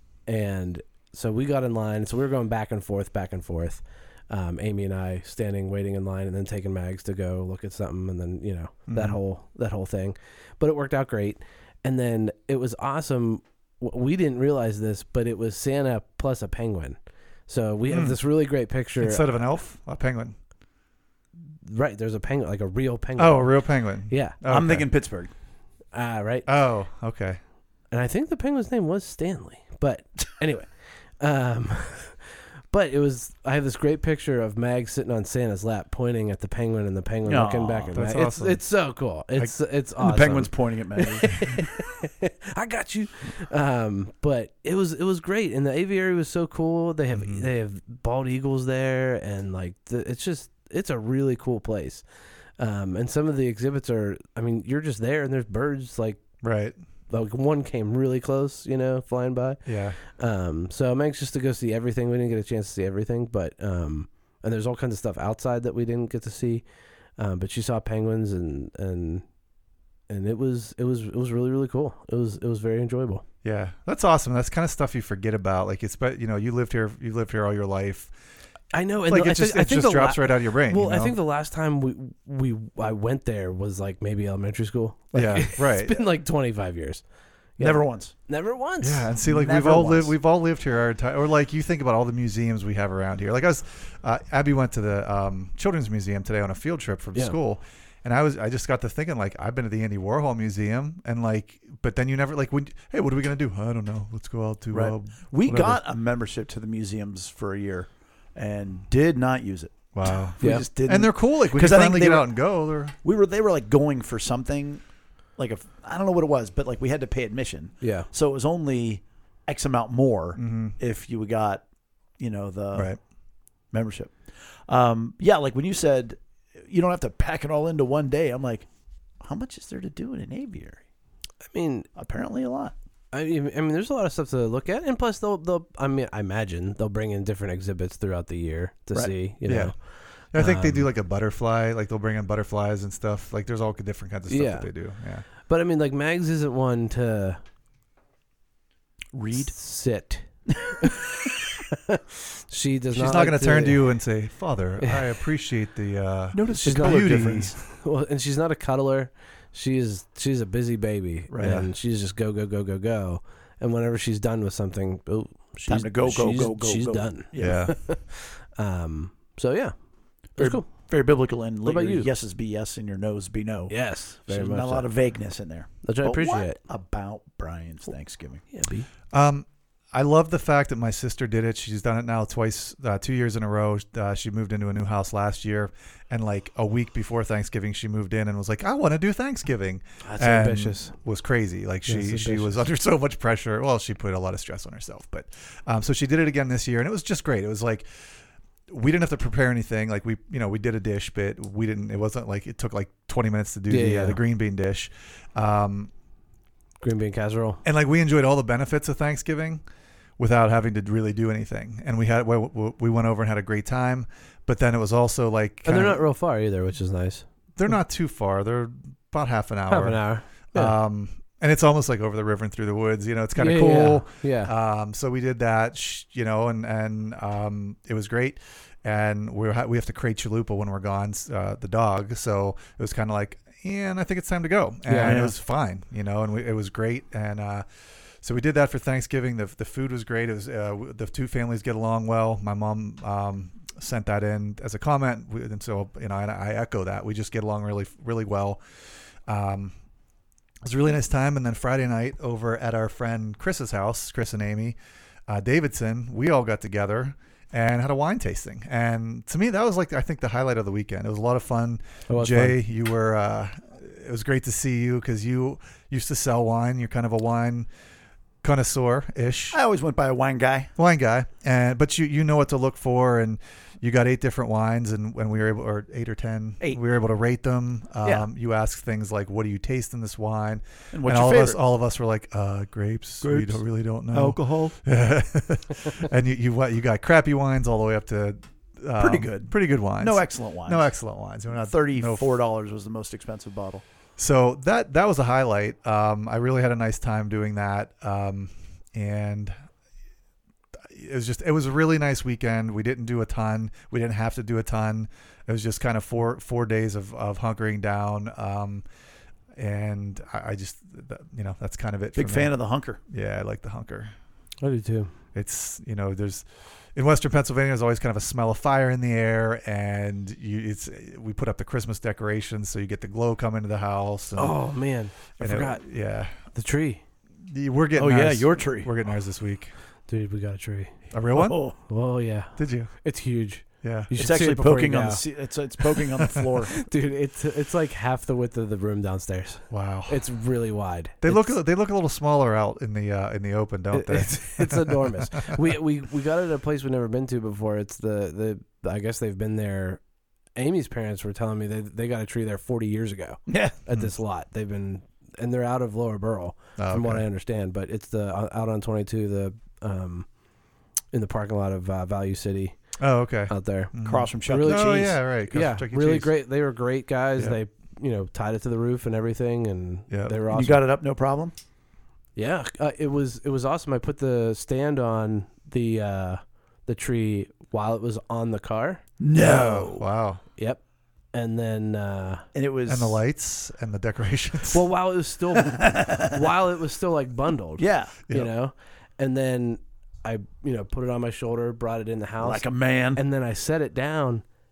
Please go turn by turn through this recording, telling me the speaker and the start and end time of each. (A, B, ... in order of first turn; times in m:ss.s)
0:00.2-0:17.0 A
0:08.9-0:09.2 B
0:17.5-0:19.3 A
0:17.9-0:18.2 B
0:19.0-0:20.4 B
0:21.6-0:24.4 A
0:23.2-0:24.9 B
0:24.5-0:25.3 C
0:25.9-0:26.5 A
0:26.4-0:27.4 B
0:27.9-0:52.0 A
0:37.2-0:38.0 C
0:37.9-0:38.6 B
0:40.0-0:41.5 C
0:47.1-0:47.4 B
0:52.6-0:56.2 A
0:56.4-0:56.8 B
0:57.1-1:06.6 A
0:59.6-1:00.0 B
1:07.2-1:09.2 A
1:10.1-1:13.2 A
1:13.4-1:18.1 B
1:18.7-1:27.0 A
1:19.1-1:21.2 B
1:25.1-1:26.0 B
1:27.6-1:29.1 A
1:27.6-1:28.1 C
1:28.8-1:45.8 B
1:29.2-1:30.1 C
1:44.7-1:52.3 C
1:49.9-1:52.9 B
1:50.4-1:50.6 A
1:53.0-1:54.8 C
1:55.4-2:01.6 C
1:57.8-1:58.1 A
2:00.4-2:00.8 B
2:02.2-2:02.9 C
2:03.7-2:04.1 C
2:04.7-2:08.7 C
2:09.2-2:10.8 C
2:11.5-2:11.9 A
2:12.0-2:12.7 C
2:13.1-2:20.9 A
2:19.4-2:19.7 B
2:20.3-2:25.2 B
2:24.3-2:24.7 A
2:25.4-2:27.4 A
2:29.1-2:29.5 C
2:29.4-2:33.9 A
2:30.5-2:31.3 C
2:32.9-2:37.5 B
2:34.8-2:35.2 A
2:36.3-2:37.6 C
2:36.6-2:49.7 A
2:41.3-2:41.6 C
2:45.7-2:47.7 C
2:47.4-2:47.7 B
2:50.4-2:50.7 A
2:50.4-2:58.4 C
2:51.6-2:52.1 A
2:53.7-2:54.9 A
2:55.8-2:56.6 A
2:58.5-2:58.9 A
2:59.1-3:17.9 B
3:10.0-3:10.9 A
3:11.8-3:12.6 A
3:18.7-3:25.9 B
3:23.7-3:24.2 A
3:26.8-3:27.6 A
3:27.6-3:29.6 B
3:30.2-3:36.0 B
3:35.6-3:37.2 A
3:37.6-3:57.6 B
3:39.7-3:40.8 A
3:43.4-3:44.5 A
3:54.8-3:55.3 A
3:55.0-3:55.3 C
3:58.2-4:08.6 B
4:09.3-4:09.7 B
4:10.6-4:14.8 B
4:15.3-4:27.7 B
4:22.1-4:22.6 A
4:28.4-4:29.6 B
4:29.5-4:30.7 C
4:30.8-4:52.3 B
4:40.9-4:41.6 C
4:43.2-4:44.8 C
4:49.0-4:50.9 C
4:51.5-4:53.8 C
4:54.2-4:59.5 B
5:00.9-5:08.8 B
5:09.6-5:12.5 B
5:12.2-5:13.0 C
5:13.1-5:14.1 B
5:14.6-5:15.1 A
5:15.3-5:24.6 B
5:24.4-5:25.8 A
5:25.4-5:26.4 B
5:26.4-5:27.0 A
5:27.5-5:29.7 B
5:28.0-5:28.9 C
5:30.1-5:30.9 A
5:31.1-5:31.6 B
5:31.4-5:31.8 C
5:31.8-5:35.2 A
5:32.6-5:32.9 B
5:33.8-5:34.1 B
5:34.2-5:36.8 C
5:36.7-5:41.6 A
5:39.7-5:40.2 B
5:41.2-5:45.6 B
5:43.9-5:50.0 A
5:50.6-6:00.3 A
5:53.5-5:53.8 C
5:56.8-5:57.2 B
6:01.1-6:02.8 A
6:03.0-6:06.3 B
6:03.5-6:10.8 A
6:04.0-6:05.2 C
6:10.1-6:10.4 B
6:10.5-6:11.5 C
6:12.4-6:19.7 A
6:19.2-6:20.0 C
6:19.4-6:20.4 B
6:20.6-6:20.8 A
6:21.3-6:22.4 A
6:22.5-6:23.2 C
6:22.9-6:24.8 B
6:24.7-6:34.4 A
6:25.6-6:26.4 C
6:27.8-6:28.2 C
6:32.4-6:33.2 C